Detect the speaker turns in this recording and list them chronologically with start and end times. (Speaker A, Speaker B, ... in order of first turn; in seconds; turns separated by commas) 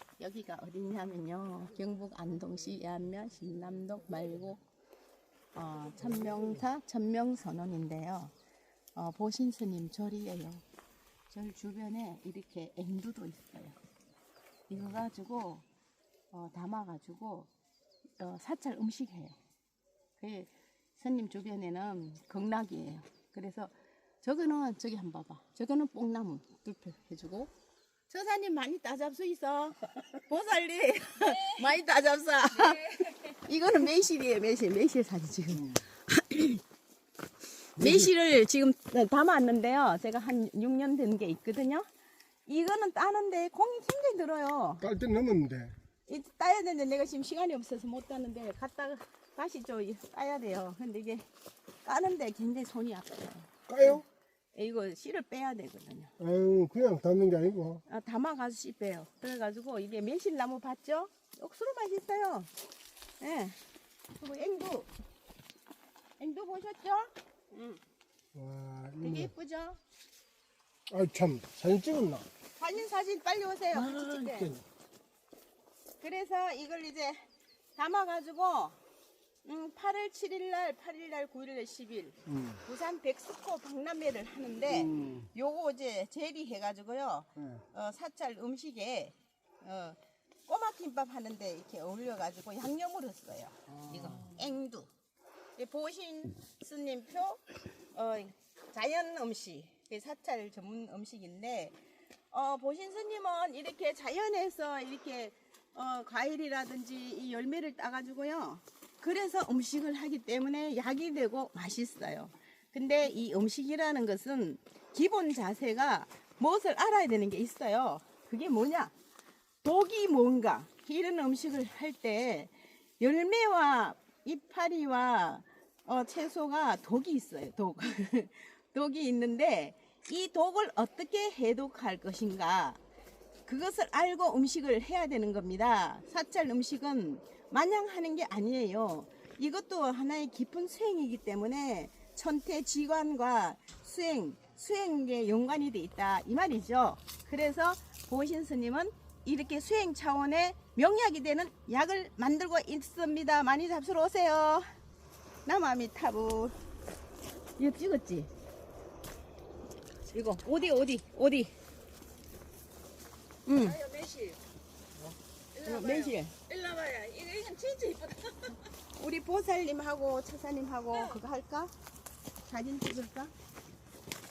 Speaker A: 0.2-4.6, Speaker A: 5.5-8.3, Speaker A: 8.9-10.6, Speaker A: 11.3-13.8, Speaker A: 14.7-15.7, Speaker A: 16.3-17.5, Speaker A: 18.2-19.4, Speaker A: 20.2-27.5, Speaker A: 28.1-36.6, Speaker A: 37.8-41.9, Speaker A: 42.5-44.9, Speaker B: 44.9-45.7, Speaker A: 46.1-51.3, Speaker A: 51.8-56.1, Speaker B: 53.7-54.0, Speaker B: 56.2-57.8, Speaker A: 57.9-62.5, Speaker A: 63.2-63.6, Speaker A: 64.1-64.9, Speaker A: 66.2-67.8, Speaker B: 68.3-69.2, Speaker A: 69.0-69.8, Speaker B: 70.9-72.3, Speaker A: 72.6-74.6, Speaker A: 76.0-78.8, Speaker A: 79.4-94.9, Speaker A: 95.6-101.8, Speaker A: 102.3-118.9, Speaker A: 119.6-132.8, Speaker A: 133.5-154.7, Speaker A: 155.5-156.6, Speaker A: 157.6-158.3, Speaker A: 160.1-161.5, Speaker A: 163.5-163.8, Speaker C: 163.6-164.4, Speaker C: 165.6-168.6, Speaker A: 165.6-166.4, Speaker A: 168.9-171.7, Speaker A: 172.4-173.3